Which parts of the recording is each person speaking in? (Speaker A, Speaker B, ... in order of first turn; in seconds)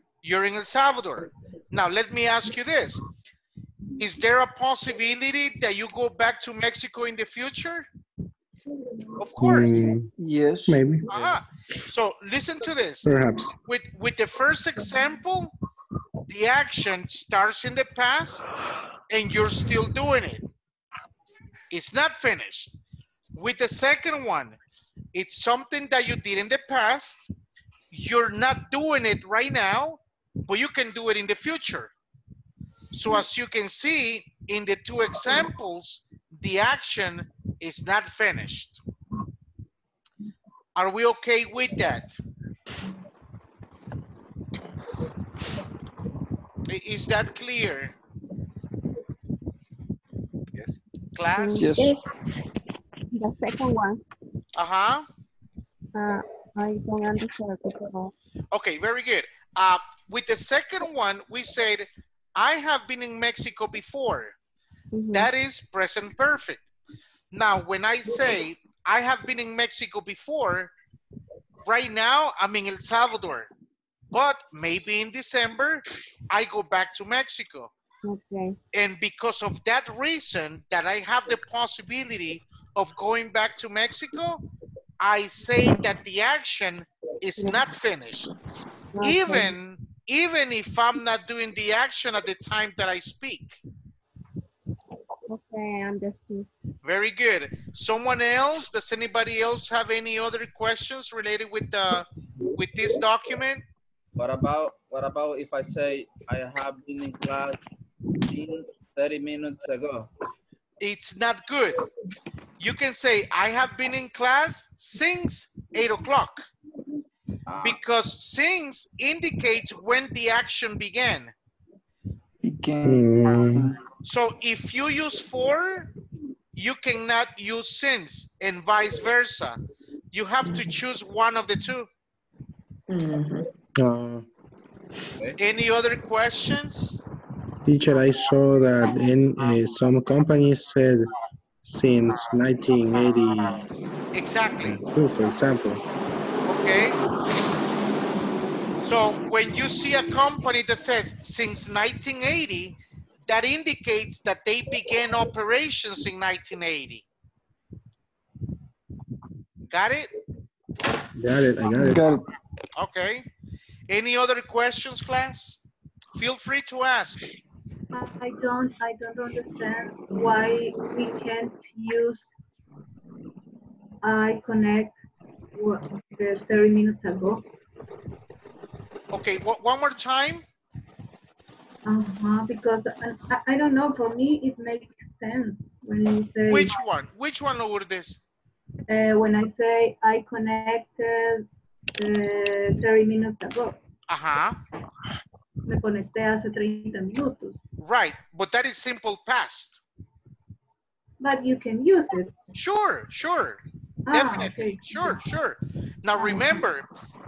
Speaker A: 0.2-3.0, 4.0-7.9, 9.2-9.8, 11.1-13.1, 13.7-15.5, 16.3-18.4, 19.1-20.5, 21.7-22.7, 23.3-24.6, 25.1-27.3, 27.9-31.9, 32.9-38.8, 40.8-42.1, 46.7-47.9, 51.1-51.8, 54.5-55.0, 58.5-64.3, 65.1-66.6, 67.3-70.7, 71.7-73.5, 74.1-77.7, 78.7-84.4, 85.0-88.3, 89.0-93.6, 96.8-103.6, 110.8-111.9, 112.6-116.5, 117.6-121.3, 124.0-125.9, 126.5-129.6, 130.1-131.9, 135.4-137.0, 144.1-144.8, 146.4-147.0, 148.8-157.0, 159.7-160.1, 162.8-163.2, 163.9-165.6, 166.2-167.3, 179.1-180.4, 186.4-188.2, 194.1-194.6, 197.8-199.8, 202.5-206.9
Speaker B: 9.4-10.1, 10.7-11.1, 13.0-13.6, 122.8-123.7, 133.8-134.2, 137.6-141.1, 141.6-143.6, 144.6-145.8, 161.2-162.1
Speaker C: 10.2-10.8, 51.6-51.9, 122.4-123.8, 161.7-162.2
Speaker D: 44.5-45.1, 51.7-52.5, 88.2-88.7, 130.4-130.8, 132.9-133.5
Speaker E: 53.1-54.0, 55.9-58.1, 64.9-65.3, 78.0-78.5, 89.0-89.5, 95.3-96.5
Speaker F: 104.2-107.6, 108.2-110.1, 117.5-117.8
Speaker G: 167.9-172.2, 174.0-175.0, 175.5-177.4, 181.8-186.8, 188.9-191.4, 192.0-193.8, 195.6-197.6, 201.2-202.3, 204.1-205.2, 206.1-206.7